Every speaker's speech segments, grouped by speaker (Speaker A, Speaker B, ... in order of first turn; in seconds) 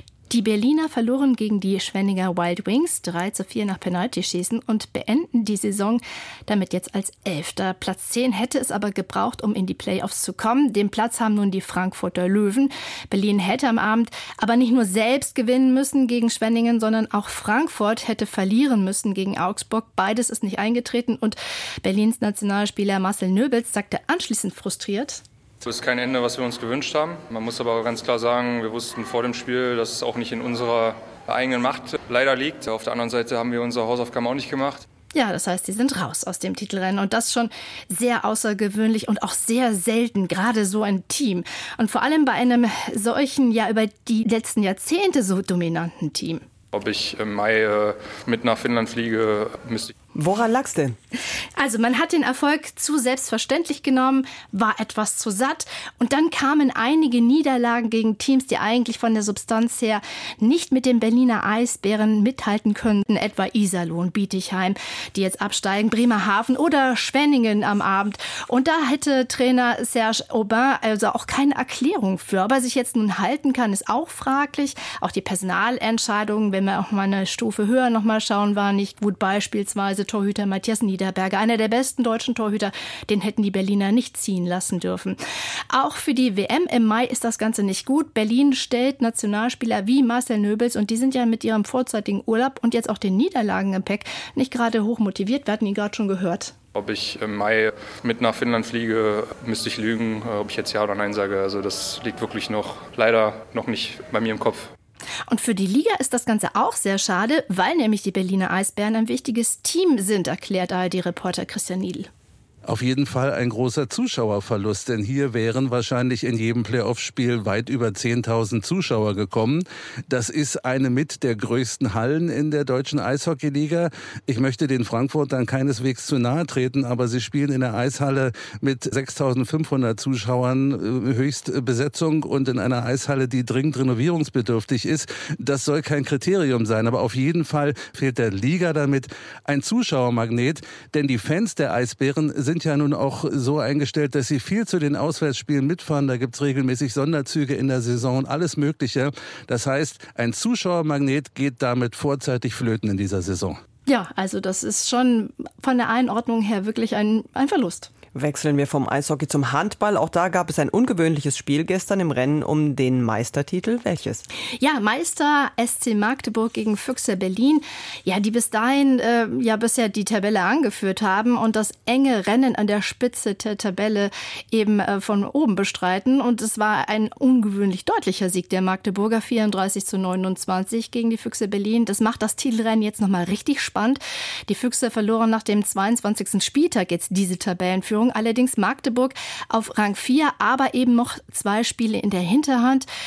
Speaker A: 0.3-25.2, 35.1-46.4, 51.6-85.2, 85.7-96.5, 105.3-112.1, 153.8-157.9, 164.6-192.8
Speaker B: 25.6-34.9, 46.7-49.9, 96.7-104.7
Speaker C: 50.1-51.0, 158.1-164.2
Speaker D: 112.6-153.6